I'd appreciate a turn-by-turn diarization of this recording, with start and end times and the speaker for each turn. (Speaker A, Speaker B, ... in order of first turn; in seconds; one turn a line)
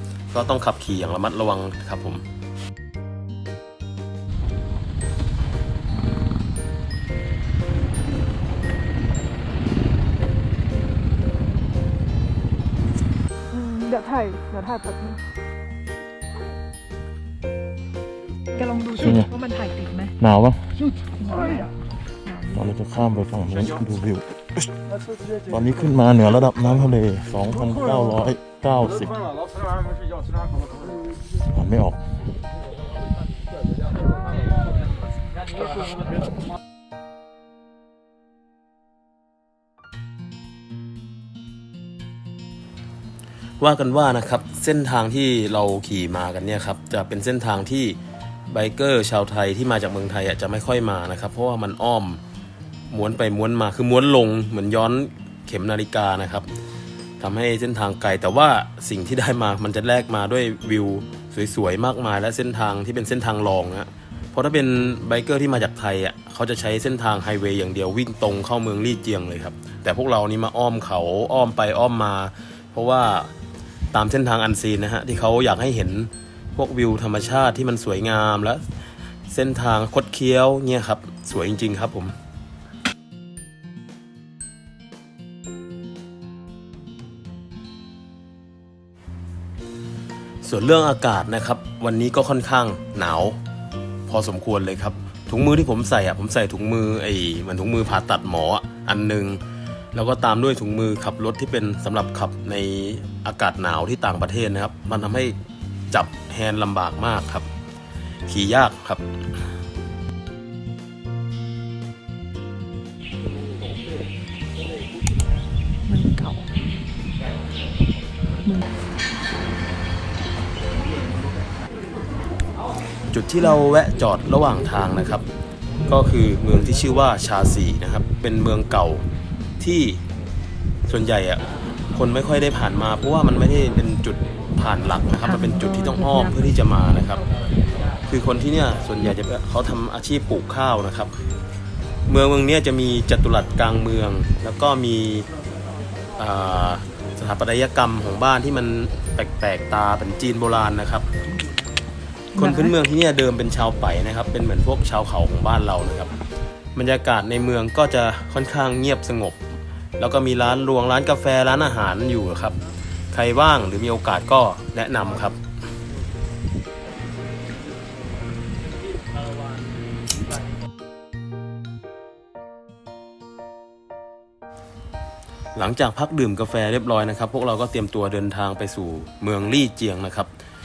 Speaker A: 0.3-2.2
Speaker B: 13.5-15.2
Speaker B: 18.5-20.1
Speaker C: 19.0-19.3
Speaker C: 20.2-20.7
Speaker B: 21.2-21.7
Speaker B: 22.2-22.6
Speaker C: 22.5-24.7
Speaker C: 25.5-29.3
Speaker C: 31.5-32.0
Speaker A: 43.6-48.0
Speaker A: 48.5-52.2
Speaker A: 52.9-56.5
Speaker A: 57.2-73.3
Speaker A: 73.9-78.6
Speaker A: 79.3-82.2
Speaker A: 90.4-93.4
Speaker A: 94.1-99.4
Speaker A: 99.9-105.4
Speaker A: 105.9-107.5
Speaker A: 108.3-109.1
Speaker B: 115.9-116.5
Speaker A: 123.1-125.2
Speaker A: 125.9-129.1
Speaker A: 129.6-130.0
Speaker A: 130.9-137.2
Speaker B: 135.2-136.5
Speaker A: 138.1-141.2
Speaker A: 142.1-145.3
Speaker A: 146.2-151.1
Speaker B: 152.3-152.7
Speaker A: 152.4-156.1
Speaker A: 156.8-159.4
Speaker A: 160.0-162.6
Speaker A: 163.1-165.4
Speaker A: 175.6-180.3